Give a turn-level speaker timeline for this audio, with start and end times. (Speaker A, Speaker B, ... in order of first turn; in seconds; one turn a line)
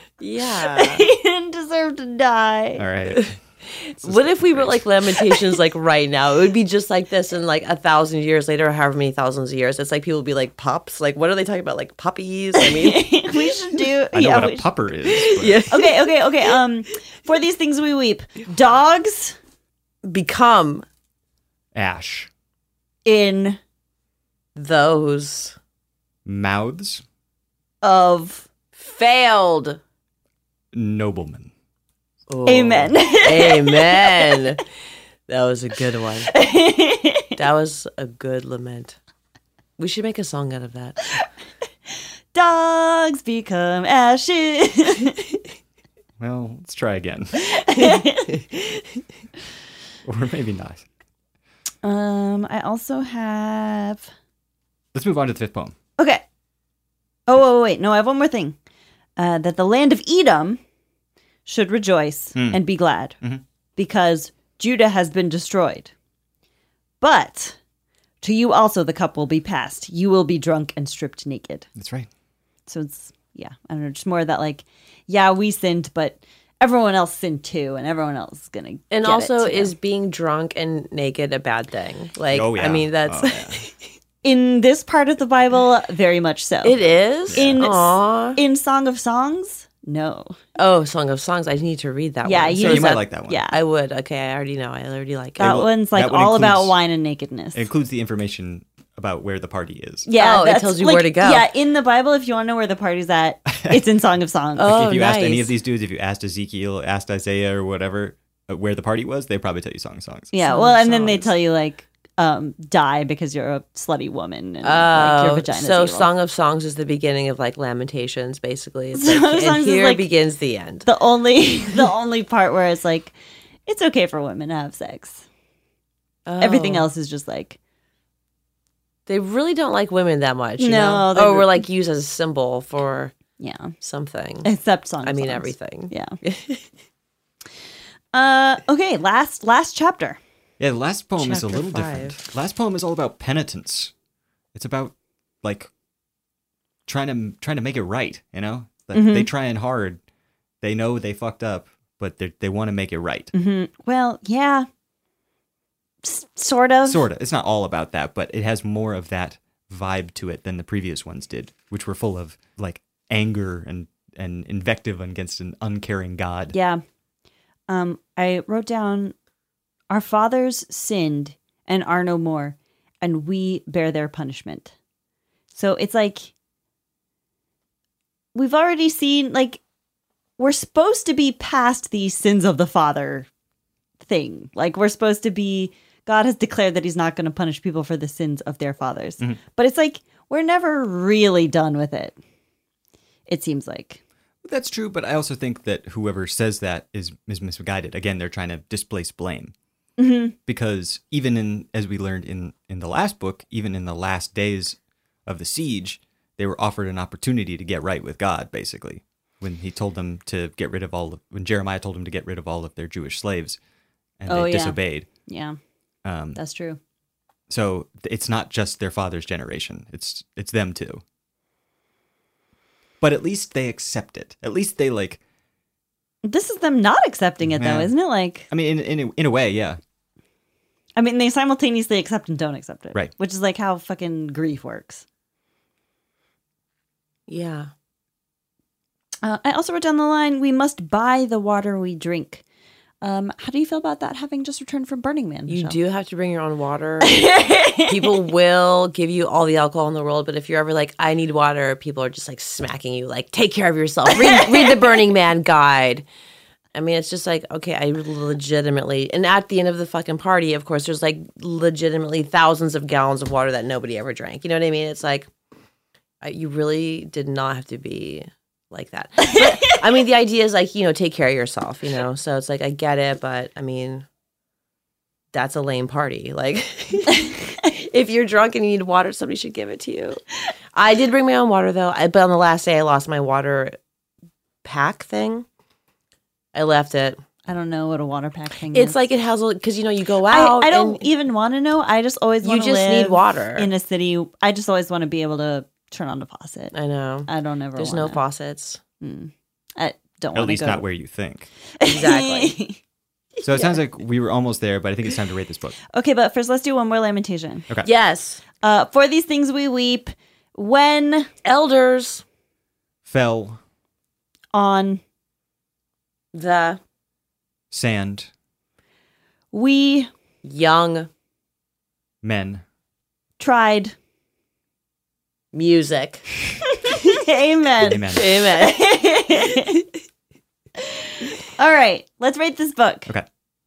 Speaker A: 0.2-1.1
Speaker B: 0.6-2.9
Speaker C: 2.8-3.4
Speaker A: 3.1-13.5
Speaker C: 4.0-4.9
Speaker B: 12.6-14.7
Speaker C: 14.1-15.7
Speaker A: 15.1-16.5
Speaker B: 15.7-19.4
Speaker A: 20.0-20.8
Speaker C: 21.7-22.3
Speaker B: 23.0-23.6
Speaker A: 24.6-25.6
Speaker C: 26.2-27.0
Speaker B: 27.8-28.5
Speaker A: 28.8-29.8
Speaker C: 30.7-31.5
Speaker A: 32.3-34.6
Speaker B: 32.5-34.4
Speaker A: 35.3-36.3
Speaker B: 36.3-37.3
Speaker A: 37.4-39.0
Speaker A: 39.8-41.0
Speaker B: 42.3-45.2
Speaker C: 46.2-47.5
Speaker B: 47.4-48.4
Speaker C: 50.0-50.9
Speaker B: 51.8-54.1
Speaker C: 54.9-55.7
Speaker B: 56.0-56.2
Speaker B: 57.3-58.5
Speaker B: 59.2-60.6
Speaker B: 61.5-63.1
Speaker C: 62.3-62.6
Speaker B: 63.8-65.9
Speaker B: 67.0-67.6
Speaker B: 68.2-71.7
Speaker C: 71.8-72.1
Speaker B: 72.7-79.7
Speaker A: 78.9-83.7
Speaker C: 82.3-83.6
Speaker B: 84.2-90.3
Speaker A: 86.6-88.4
Speaker C: 87.3-87.7
Speaker A: 90.5-95.6
Speaker B: 92.2-93.5
Speaker C: 92.6-93.4
Speaker B: 95.4-97.7
Speaker C: 95.4-96.7
Speaker C: 97.5-100.1
Speaker B: 100.1-104.8
Speaker A: 100.1-101.5
Speaker C: 103.5-103.8
Speaker A: 104.6-105.5
Speaker C: 104.7-110.3
Speaker B: 110.3-116.1
Speaker A: 110.4-111.3
Speaker A: 114.6-120.9
Speaker B: 118.9-120.1
Speaker B: 120.8-123.1
Speaker B: 123.7-125.2
Speaker A: 126.2-126.9
Speaker B: 126.4-127.6
Speaker A: 129.1-133.1
Speaker B: 130.6-131.6
Speaker B: 133.4-133.7
Speaker A: 133.8-134.5
Speaker B: 134.4-136.2
Speaker A: 135.0-136.6
Speaker B: 138.1-140.2
Speaker C: 140.6-143.9
Speaker A: 141.2-142.2
Speaker C: 144.5-145.7
Speaker C: 146.8-150.0
Speaker B: 148.9-149.3
Speaker C: 150.6-153.3
Speaker B: 153.3-154.7
Speaker B: 156.0-157.1
Speaker C: 156.8-166.5
Speaker B: 166.5-166.8
Speaker B: 167.7-169.1
Speaker B: 169.9-174.7
Speaker B: 175.5-176.3
Speaker B: 178.3-179.6
Speaker B: 180.4-183.3
Speaker B: 184.0-192.2
Speaker B: 193.3-194.0
Speaker C: 194.4-199.5
Speaker B: 200.0-200.3
Speaker C: 200.5-213.6
Speaker C: 214.2-215.1
Speaker B: 214.3-215.6
Speaker C: 216.0-216.4
Speaker B: 216.3-216.8
Speaker C: 217.5-221.0
Speaker C: 223.0-225.2
Speaker B: 226.2-228.5
Speaker C: 227.4-227.9
Speaker C: 228.5-229.8
Speaker B: 230.9-235.0
Speaker A: 237.3-237.7
Speaker B: 239.2-242.4
Speaker B: 243.0-245.8
Speaker A: 245.5-256.1
Speaker B: 247.0-248.2
Speaker A: 256.7-265.3
Speaker A: 266.2-274.1
Speaker B: 269.2-269.8
Speaker A: 275.3-280.2
Speaker A: 280.7-283.8
Speaker A: 284.6-285.4
Speaker A: 286.5-287.2
Speaker B: 287.4-289.0
Speaker A: 288.7-291.0
Speaker B: 290.3-296.7
Speaker A: 292.4-293.7
Speaker A: 296.7-298.8
Speaker B: 297.3-298.2
Speaker B: 299.0-300.8
Speaker C: 300.3-301.5
Speaker B: 301.8-302.8
Speaker A: 301.8-302.6
Speaker C: 303.4-305.8
Speaker B: 305.9-307.7
Speaker A: 307.8-308.4
Speaker B: 308.6-311.3
Speaker A: 311.4-312.2
Speaker C: 313.1-313.6
Speaker B: 314.5-315.0
Speaker A: 316.3-316.8
Speaker C: 317.7-318.3
Speaker B: 319.5-320.1
Speaker A: 320.4-321.1
Speaker C: 322.2-322.6
Speaker B: 323.4-323.9
Speaker A: 325.5-326.3
Speaker B: 326.6-329.8
Speaker C: 327.8-328.3
Speaker A: 328.1-329.8
Speaker B: 330.8-333.1